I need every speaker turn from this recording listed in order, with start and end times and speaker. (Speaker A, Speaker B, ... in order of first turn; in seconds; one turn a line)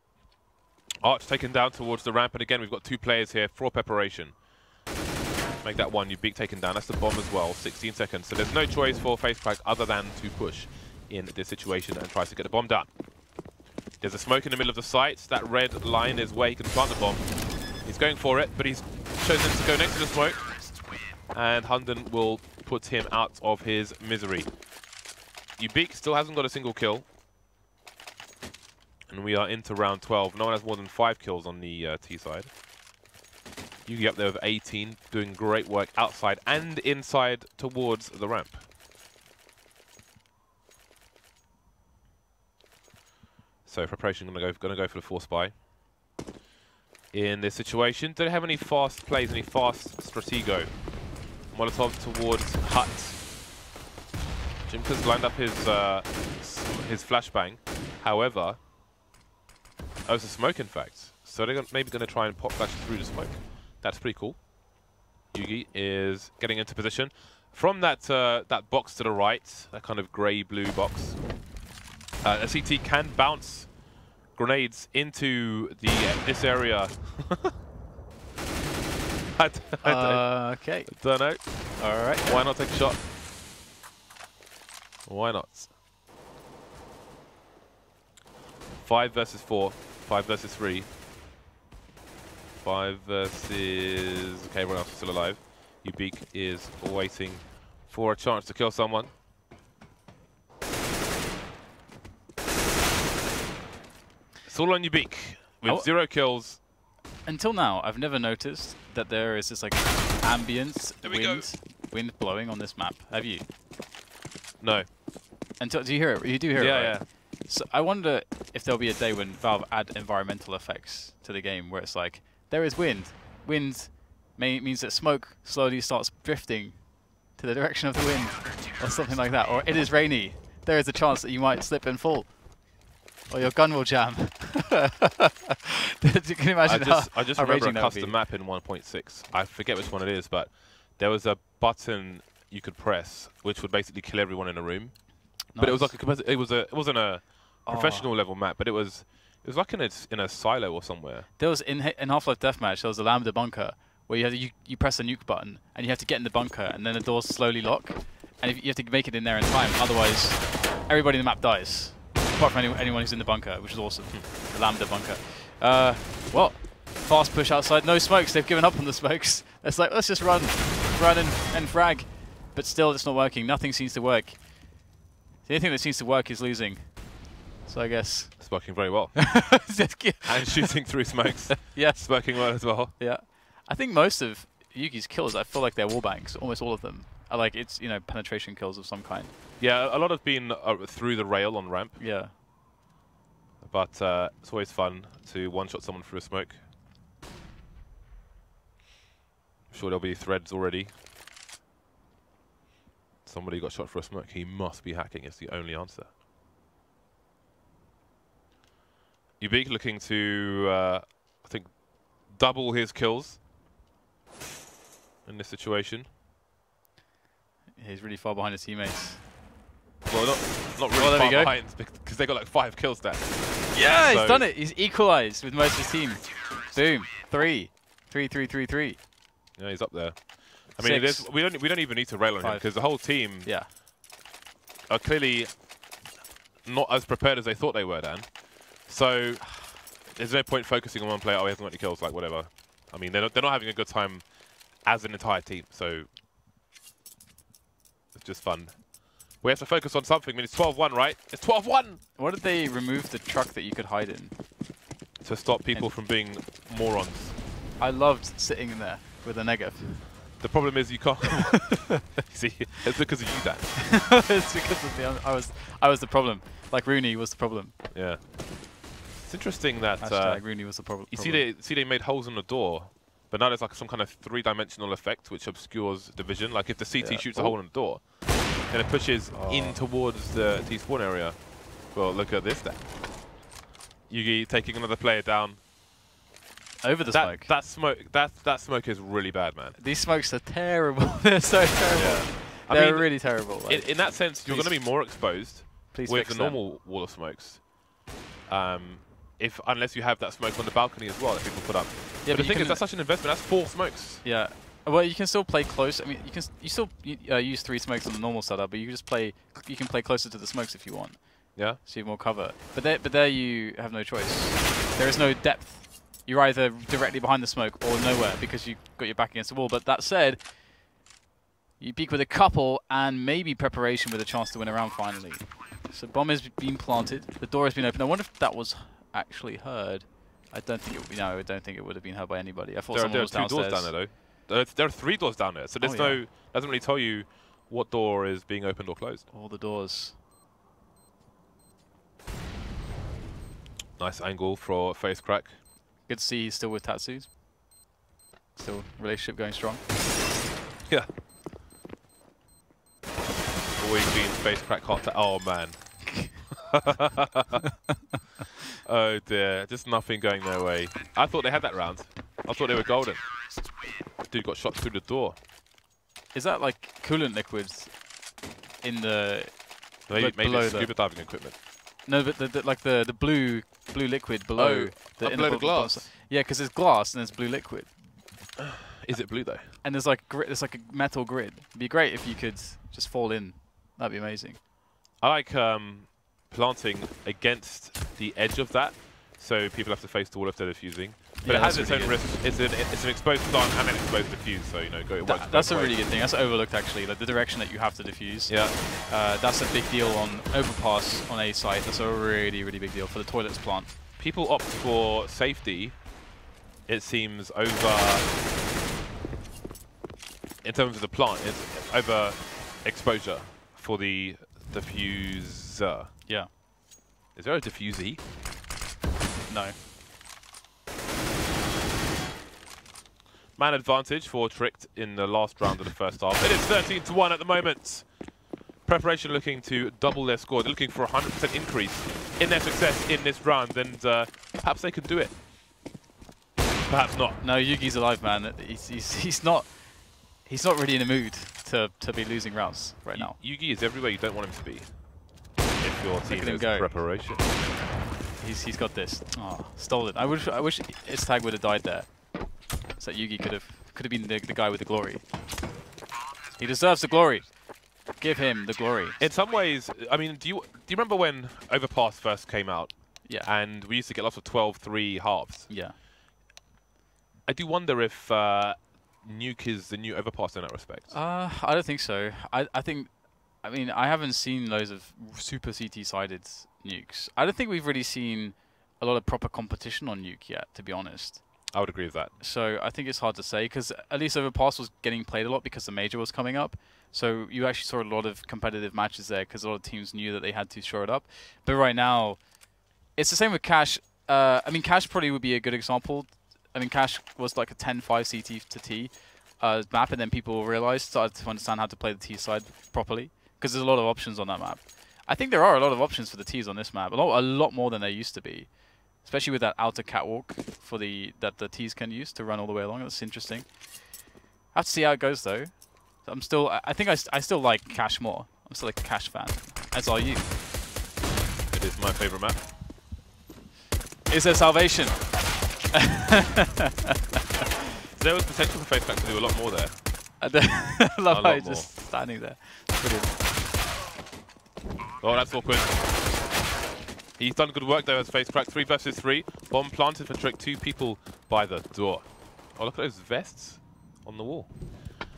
Speaker A: 1.0-4.3
Speaker A: 5.6-12.9
Speaker A: 14.0-20.6
Speaker A: 21.3-24.5
Speaker A: 25.6-27.1
Speaker A: 29.1-32.5
Speaker A: 33.8-38.6
Speaker A: 43.6-45.6
Speaker A: 47.1-50.8
Speaker A: 51.5-53.2
Speaker A: 54.6-58.6
Speaker A: 60.0-64.5
Speaker A: 65.3-71.2
Speaker A: 72.2-73.8
Speaker A: 74.3-77.5
Speaker A: 79.3-83.0
Speaker B: 79.8-82.3
Speaker A: 85.0-85.7
Speaker A: 88.8-90.9
Speaker A: 92.6-99.1
Speaker A: 104.4-106.6
Speaker B: 105.6-105.9
Speaker B: 107.2-113.5
Speaker A: 111.0-111.5
Speaker A: 114.6-114.9
Speaker B: 115.6-132.7
Speaker A: 116.5-117.0
Speaker B: 133.3-138.2
Speaker A: 136.6-151.3
Speaker B: 145.5-146.0
Speaker B: 147.6-148.1
Speaker B: 151.4-174.9
Speaker B: 175.4-189.3
Speaker A: 178.4-182.9
Speaker A: 189.6-192.0
Speaker B: 192.0-192.3
Speaker A: 193.6-196.6
Speaker A: 199.7-200.9
Speaker A: 203.2-206.1
Speaker A: 209.4-213.4
Speaker A: 215.2-216.1
Speaker B: 217.8-219.2
Speaker A: 220.1-224.5
Speaker B: 220.9-221.6
Speaker B: 223.7-229.0
Speaker A: 229.6-233.5
Speaker B: 230.8-231.5
Speaker B: 232.4-233.7
Speaker A: 234.9-235.6
Speaker A: 236.6-244.2
Speaker A: 244.8-246.1
Speaker A: 248.1-252.0
Speaker B: 252.2-254.3
Speaker A: 255.2-257.4
Speaker B: 257.8-260.4
Speaker A: 260.4-263.7
Speaker B: 263.8-267.8
Speaker A: 267.9-268.4
Speaker A: 269.2-282.9
Speaker B: 270.0-271.5
Speaker B: 277.0-277.6
Speaker B: 279.3-279.8
Speaker A: 284.1-285.6
Speaker B: 286.8-287.5
Speaker A: 287.1-289.8
Speaker B: 289.8-295.3
Speaker A: 291.9-297.7
Speaker B: 295.9-296.6
Speaker A: 298.5-304.2
Speaker B: 302.2-302.8
Speaker B: 304.2-320.5
Speaker A: 311.5-311.8
Speaker B: 321.8-333.9
Speaker A: 332.9-339.3
Speaker B: 335.8-336.2
Speaker B: 339.3-340.1
Speaker A: 344.0-345.5
Speaker B: 346.0-347.3
Speaker B: 348.5-349.8
Speaker A: 353.8-357.6
Speaker B: 356.1-356.4
Speaker A: 358.8-363.2
Speaker A: 364.2-365.4
Speaker B: 366.3-368.1
Speaker B: 368.8-370.9
Speaker A: 370.1-371.5
Speaker B: 372.0-378.0
Speaker A: 374.6-376.1
Speaker A: 378.6-379.7
Speaker B: 379.6-384.6
Speaker A: 385.2-396.0
Speaker B: 391.4-392.2
Speaker B: 395.2-403.9
Speaker A: 398.5-398.8
Speaker A: 404.2-406.1
Speaker A: 406.9-408.3
Speaker A: 410.6-416.1
Speaker B: 416.2-416.5
Speaker A: 417.3-418.2
Speaker B: 419.5-419.8
Speaker A: 423.6-428.1
Speaker A: 428.8-435.4
Speaker A: 436.9-437.4
Speaker B: 437.4-443.4
Speaker A: 443.1-445.1
Speaker A: 445.8-447.5
Speaker B: 446.2-447.0
Speaker B: 448.4-455.2
Speaker B: 456.6-459.2
Speaker A: 459.2-465.7
Speaker B: 463.2-463.5
Speaker B: 465.7-465.9
Speaker A: 467.4-471.1
Speaker B: 471.1-481.7
Speaker A: 481.7-482.3
Speaker B: 482.4-492.5
Speaker B: 493.1-513.9
Speaker B: 514.7-520.5
Speaker A: 521.7-522.6
Speaker B: 524.3-526.7
Speaker A: 528.1-530.1
Speaker B: 530.4-533.4
Speaker A: 531.2-531.9
Speaker A: 535.2-535.9
Speaker A: 537.4-544.8